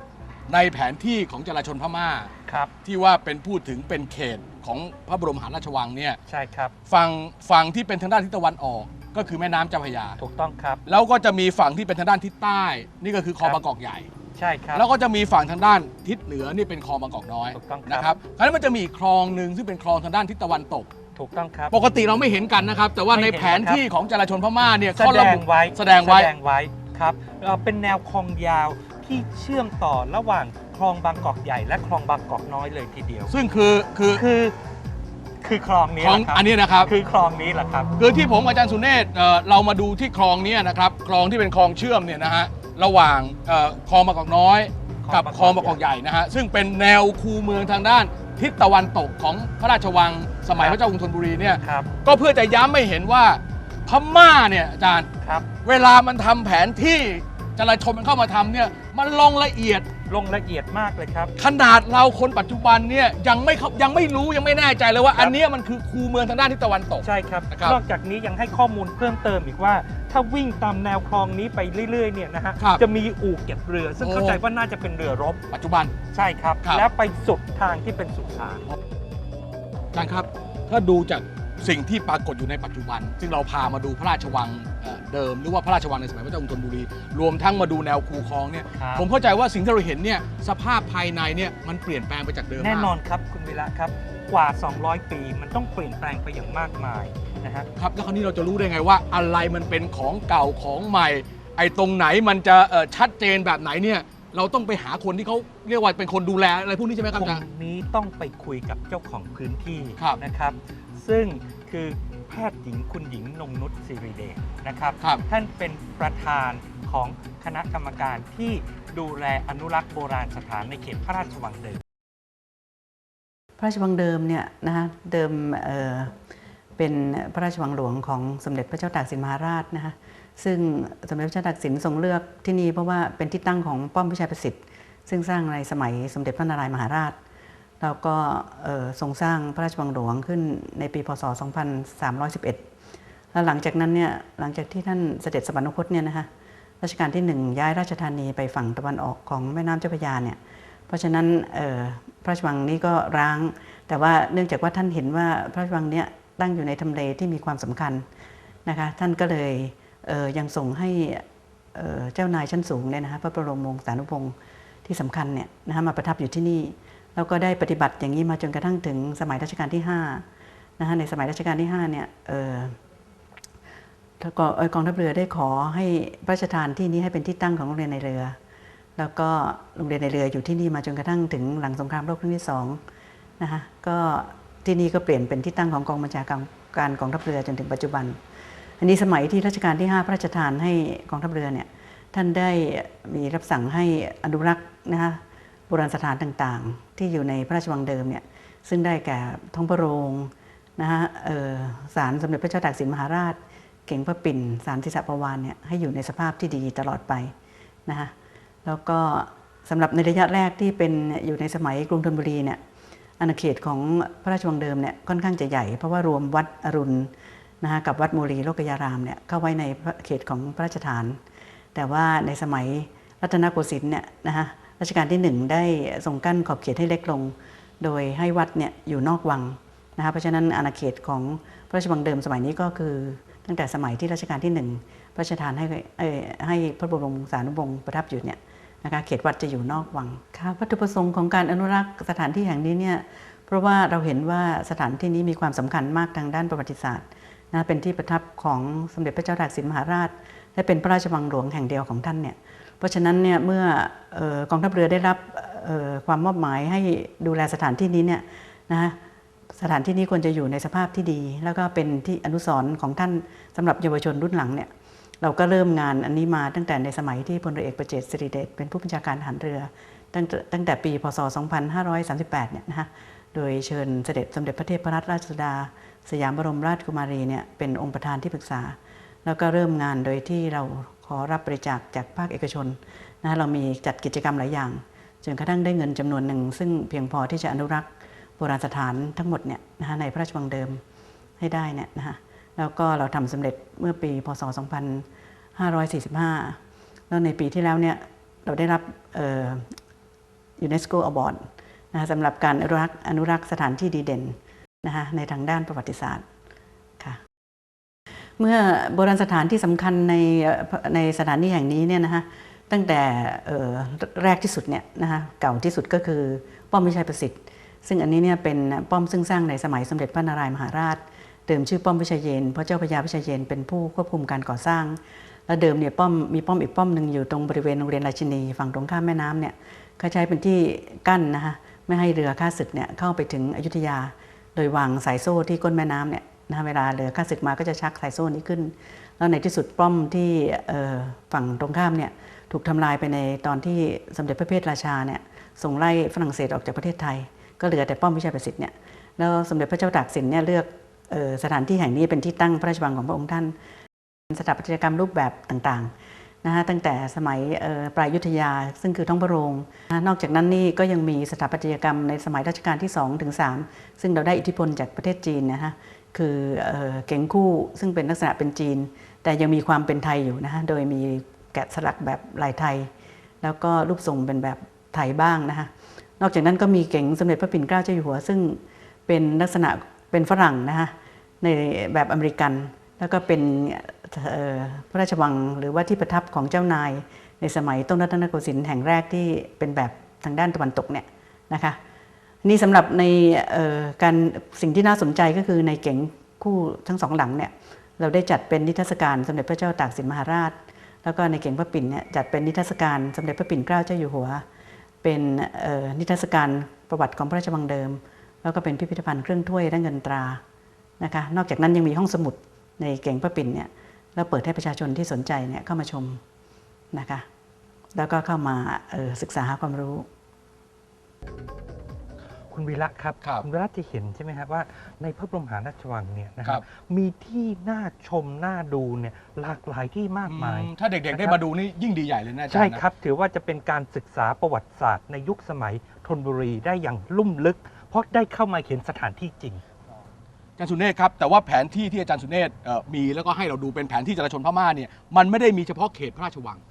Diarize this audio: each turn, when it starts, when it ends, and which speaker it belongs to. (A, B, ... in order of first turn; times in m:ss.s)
0:00.5-0:02.3 A
0:02.5-0:02.7 B
0:02.8-0:06.2 A
0:06.3-0:06.7 B
0:06.9-0:10.2 A
0:10.2-0:10.8 B
0:10.9-0:14.1 A
0:14.4-0:14.8 B
0:14.8-0:20.9 A
0:17.5-0:18.1 B
0:21.2-0:21.8 B
0:21.7-0:26.3 A
0:23.1-0:23.8 B
0:25.0-0:33.3 B
0:33.3-0:34.2 A
0:34.2-0:34.6 B
0:35.4-0:37.9 B
0:36.0-0:36.9 A
0:38.0-0:55.1 A
0:45.0-0:45.8 B
0:51.6-0:51.9 B
0:55.2-0:55.5 B
0:55.6-0:59.9 A
1:00.1-1:01.3 B
1:01.4-1:07.8 A
1:07.0-1:15.4 B
1:14.0-1:14.4 A
1:15.5-1:16.0 A
1:16.1-1:18.6 B
1:19.9-1:32.9 A
1:28.8-1:29.1 B
1:32.6-1:37.7 B
1:37.8-1:47.4 A
1:47.1-2:01.8 B
2:03.6-2:06.2 C
2:06.8-2:17.2 C
2:17.8-2:22.7 C
2:23.3-2:26.3 C
2:26.8-2:38.1 C
2:38.7-2:50.3 C
2:50.8-2:52.8 C
2:54.2-2:58.4 C
2:59.0-3:02.8 C
3:03.4-3:08.2 C
3:08.8-3:27.4 C
3:27.9-3:28.1 C
3:28.6-3:32.6 C
3:33.2-3:41.2 C
3:41.7-4:19.0 C
4:19.5-4:24.7 C
4:25.2-4:50.8 C
4:51.4-4:56.6 C
4:57.1-4:59.8 C
5:00.6-5:06.3 C
5:07.0-5:07.2 C
5:08.4-5:53.6 C
5:54.3-6:31.8 C
6:32.4-6:44.4 C
6:45.0-6:50.4 C
6:51.0-6:56.2 C
6:56.9-6:57.3 C
6:58.0-7:00.1 C
7:02.5-7:11.4 B
7:10.3-7:12.8 A
7:12.5-7:19.6 B
7:20.6-7:26.6 A